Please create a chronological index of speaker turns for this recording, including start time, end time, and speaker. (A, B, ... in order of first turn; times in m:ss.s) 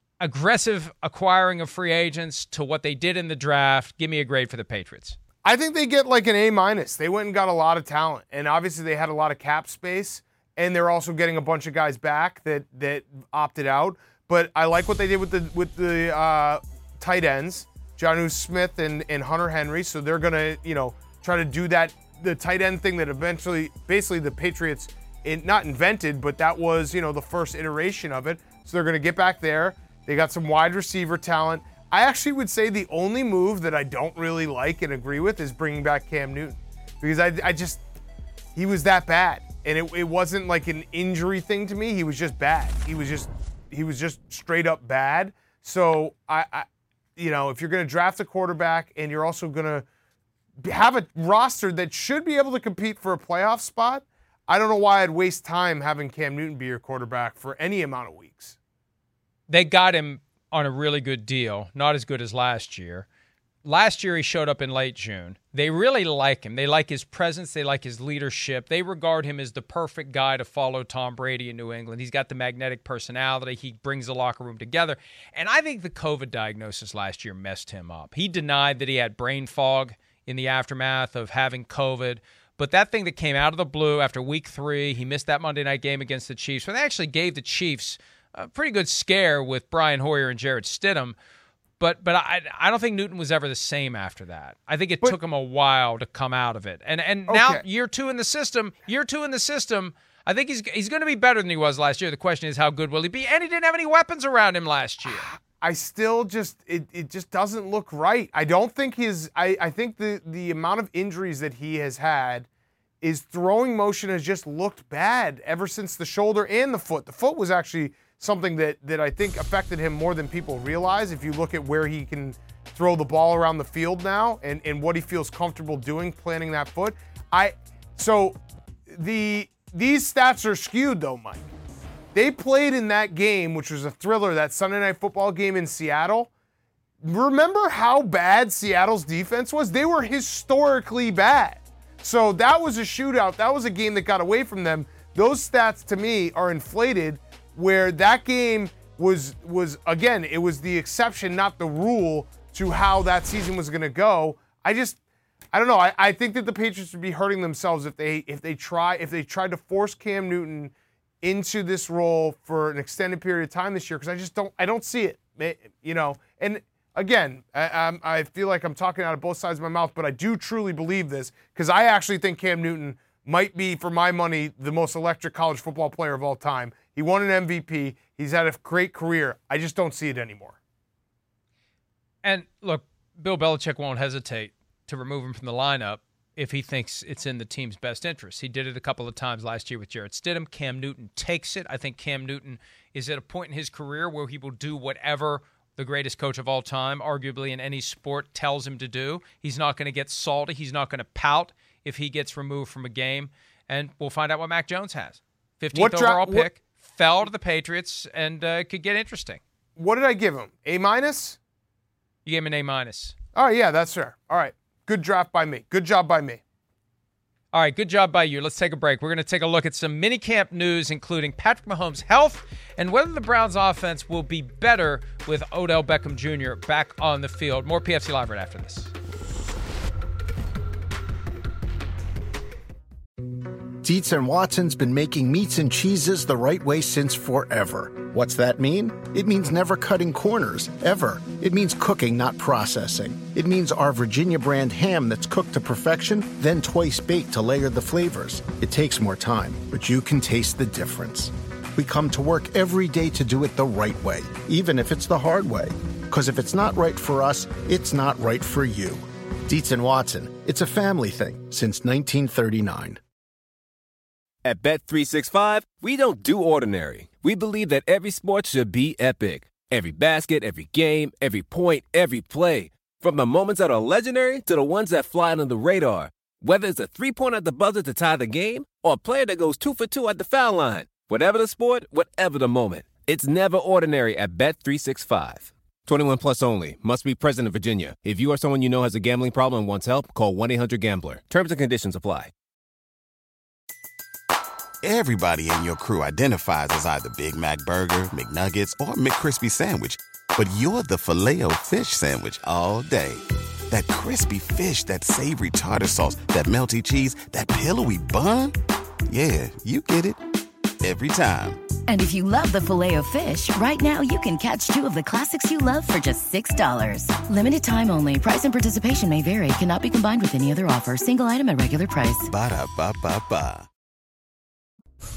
0:00.2-0:05.2 A
0:05.4-0:37.8 B
0:38.6-0:49.9 B
0:50.6-0:58.6 B
0:59.5-1:03.1 A
1:03.6-1:31.2 A
1:31.8-1:45.3 A
1:37.3-1:37.6 B
1:45.1-1:52.5 B
1:53.0-2:08.4 B
2:08.9-2:11.5 B
2:12.1-2:16.3 B
2:17.0-2:35.0 B
2:35.5-3:00.6 B
3:02.2-3:29.4 A
3:25.7-3:26.5 B
3:29.8-3:31.4 B
3:32.2-3:33.2 A
3:33.4-3:36.4 B
3:37.5-3:48.9 A
3:53.8-4:23.0 C
4:24.4-4:52.3 D
4:54.8-5:08.5 E
5:09.1-5:10.2 E
5:10.8-5:11.6 E
5:11.9-5:22.3 F
5:22.3-5:23.7 E